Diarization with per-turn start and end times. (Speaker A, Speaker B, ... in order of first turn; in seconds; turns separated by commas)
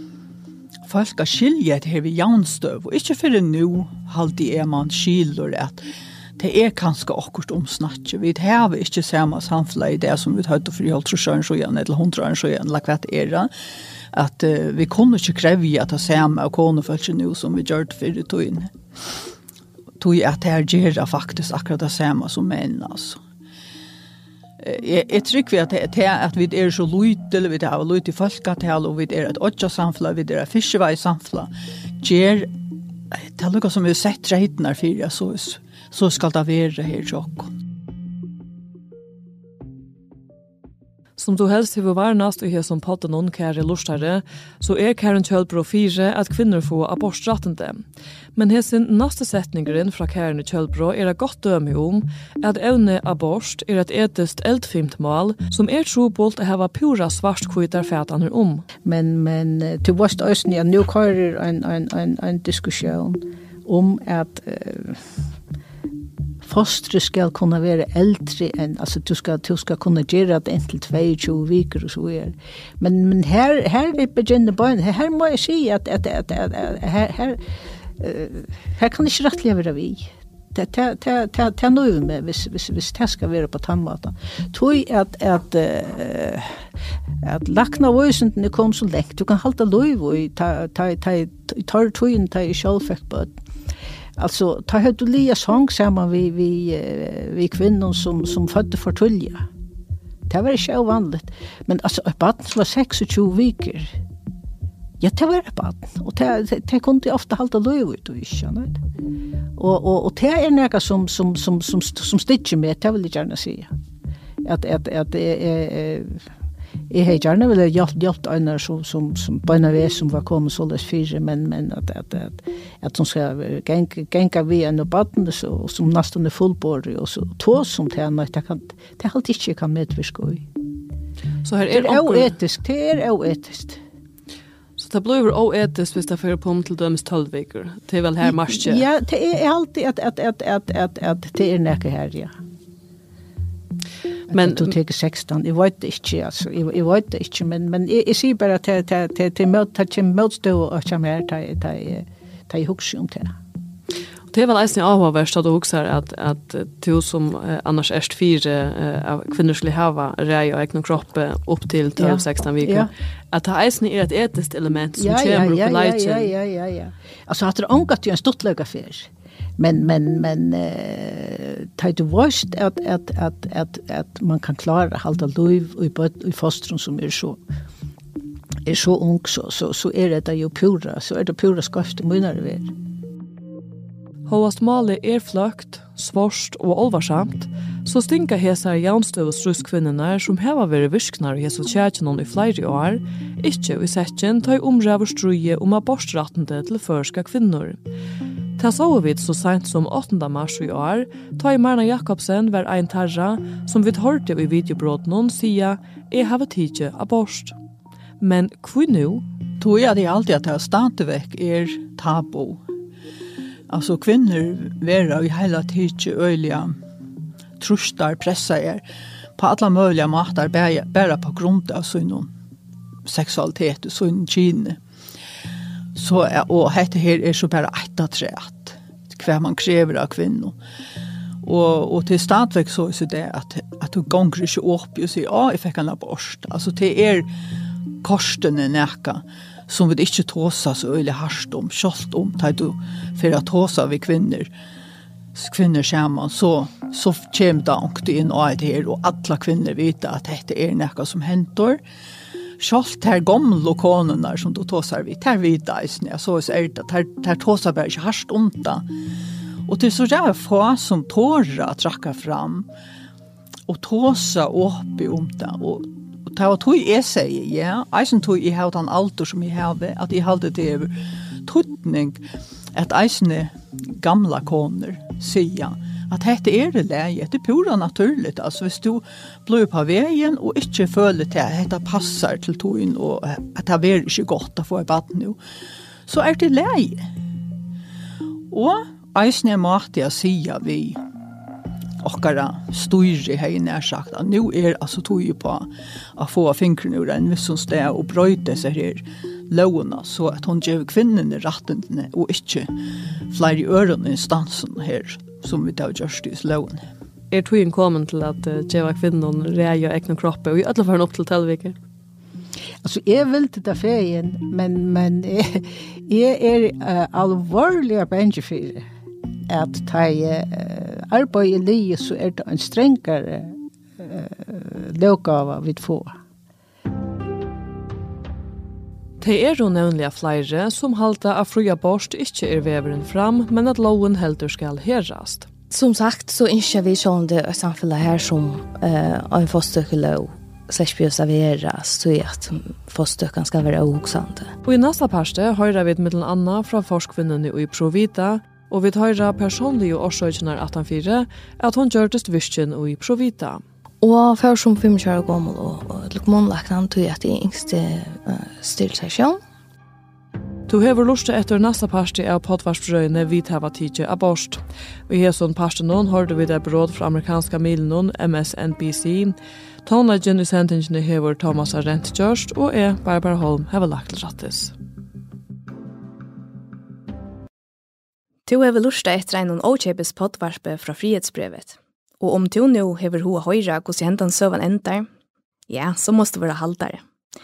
Speaker A: 0.9-5.8, Speaker A: 6.4-13.5, Speaker A: 14.1-19.2, Speaker A: 20.0-23.2, Speaker A: 24.6-31.5, Speaker A: 32.0-32.5, Speaker A: 33.1-37.5, Speaker B: 41.2-47.8, Speaker B: 48.4-58.6, Speaker C: 58.8-65.0, Speaker C: 66.4-77.4, Speaker C: 78.0-86.6, Speaker C: 87.2-93.3, Speaker C: 94.2-99.5, Speaker C: 100.3-104.0, Speaker C: 105.0-108.8, Speaker C: 109.5-113.7, Speaker C: 114.4-116.2, Speaker C: 116.9-130.5, Speaker B: 131.4-132.3, Speaker C: 131.7-133.8, Speaker B: 134.8-138.8, Speaker C: 138.2-142.3, Speaker C: 144.3-153.4, Speaker B: 144.3-144.7, Speaker B: 154.3-166.3, Speaker C: 162.0-162.9, Speaker C: 165.0-177.4, Speaker C: 178.7-182.7, Speaker B: 184.3-197.8, Speaker B: 198.6-207.5, Speaker B: 208.2-209.2, Speaker A: 209.6-212.6, Speaker A: 213.7-216.8, Speaker A: 217.6-218.8, Speaker A: 219.4-222.3, Speaker A: 223.1-224.8, Speaker A: 225.9-230.5, Speaker A: 231.4-237.3, Speaker A: 238.0-244.5, Speaker A: 245.3-251.8, Speaker A: 252.6-258.9, Speaker A: 259.7-262.7, Speaker A: 263.7-270.9, Speaker A: 271.4-272.2, Speaker A: 272.7-285.4, Speaker A: 286.1-287.1, Speaker A: 288.5-291.0, Speaker A: 292.0-302.7, Speaker A: 303.3-306.8, Speaker B: 307.3-311.8, Speaker C: 312.8-318.9, Speaker C: 319.5-326.1, Speaker B: 329.2-335.5, Speaker D: 335.7-344.5, Speaker B: 344.6-353.6, Speaker D: 354.0-359.4, Speaker B: 360.7-374.7, Speaker E: 378.4-385.1, Speaker E: 385.7-387.0